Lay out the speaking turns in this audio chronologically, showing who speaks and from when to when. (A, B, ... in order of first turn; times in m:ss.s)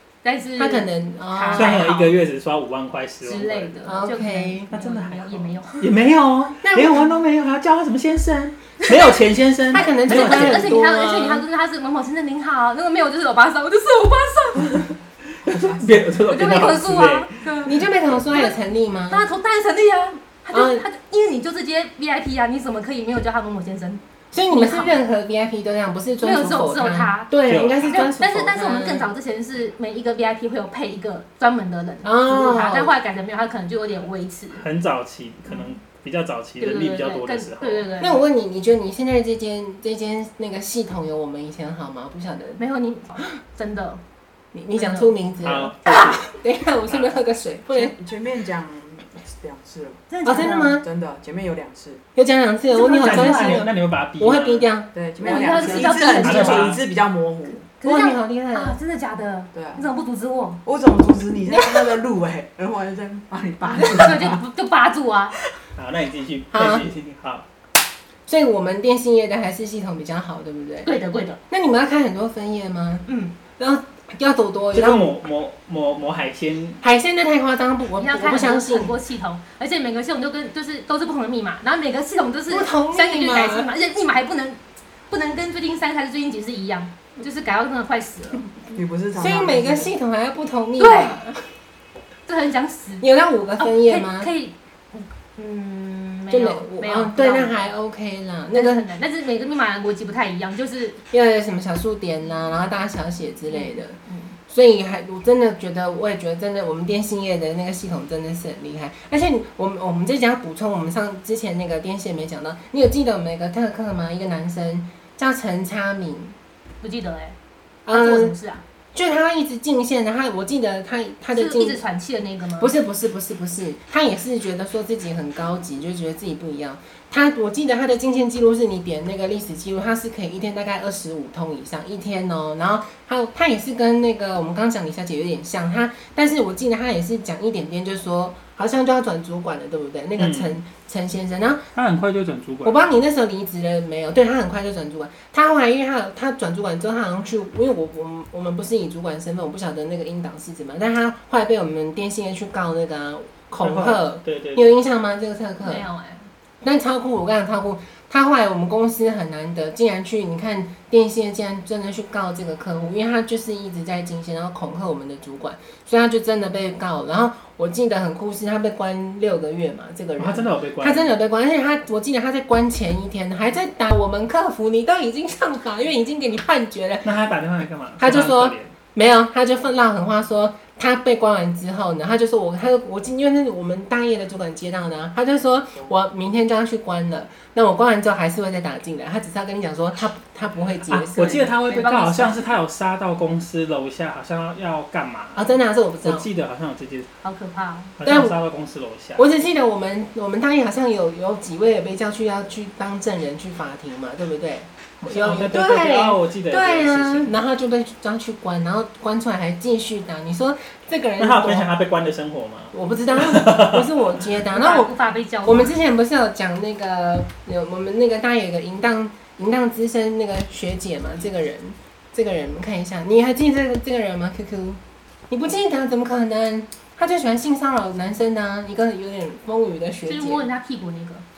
0:00.2-0:02.2 A
0:00.6-0:01.9 B
0:01.6-0:03.8 C
0:03.2-0:05.9 A
0:03.8-0:04.7 B
0:04.7-0:10.8 C
0:06.6-0:07.1 B
0:08.8-0:09.2 A
0:09.7-0:11.4 B
0:10.1-0:14.9 A
0:15.4-0:17.3 C
0:15.4-0:16.2 D
0:16.3-0:17.8 A
0:17.6-0:19.3 B
0:19.1-0:25.0 A
0:20.5-0:20.8 B
0:24.3-0:29.1 B
0:26.2-0:27.3 A
0:27.4-0:28.1 C
0:27.9-0:34.6 A
0:32.0-0:32.9 B
0:34.5-0:37.9 C
0:35.5-0:35.7 A
0:36.6-0:38.2 A
0:38.0-0:42.6 B
0:42.6-0:44.0 A
0:44.5-0:48.0 B
0:44.8-0:45.1 A
0:45.4-0:46.2 C
0:45.9-0:46.2 A
0:47.7-0:50.1 D
0:50.1-0:50.8 A
0:50.2-0:50.8 B
0:50.8-0:52.0 D
0:52.2-0:54.9 B
0:52.7-0:53.6 A
0:52.8-0:54.7 C
0:54.9-0:57.7 D
0:55.2-0:56.8 A
0:55.5-0:56.8 C
0:57.7-1:00.6 A
0:57.8-0:58.8 B
0:59.5-0:59.8 D
1:00.6-1:04.4 D
1:01.5-1:02.0 B
1:03.7-1:05.4 A
1:05.8-1:07.5 C
1:06.5-1:06.9 B
1:08.3-1:10.9 B
1:10.8-1:11.4 A
1:11.5-1:13.1 B
1:13.1-1:13.4 A
1:13.6-1:15.2 B
1:14.7-1:16.8 C
1:16.8-1:19.0 B
1:18.0-1:28.5 A
1:22.5-1:23.7 B
1:28.7-1:29.9 D
1:29.1-1:31.4 B
1:30.8-1:31.2 A
1:32.3-1:33.1 A
1:33.0-1:34.3 B
1:33.6-1:37.6 A
1:36.3-1:38.9 B
1:38.5-1:41.0 A
1:41.1-1:44.0 B
1:43.5-1:44.4 A
1:44.5-1:56.4 B
1:56.8-1:57.4 A
1:57.9-1:58.4 B
1:57.9-1:58.6 A
1:58.9-2:01.8 B
2:01.3-2:02.7 A
2:02.6-2:21.7 B
2:20.2-2:20.6 C
2:21.8-2:22.9 C
2:22.6-2:35.8 B
2:33.6-2:34.8 C
2:35.6-2:36.3 A
2:36.6-2:57.1 B
2:50.2-2:51.2 C
2:57.0-2:58.7 C
2:58.0-3:11.5 B
3:10.9-3:17.1 C
3:11.2-3:12.4 A
3:15.4-3:16.3 B
3:17.2-3:18.0 A
3:18.0-3:19.2 C
3:18.0-3:18.4 B
3:19.2-3:31.7 B
3:25.0-3:27.3 C
3:31.2-3:34.0 C
3:32.7-3:34.9 B
3:34.5-3:35.7 A
3:35.4-3:50.5 B
3:50.1-3:51.2 A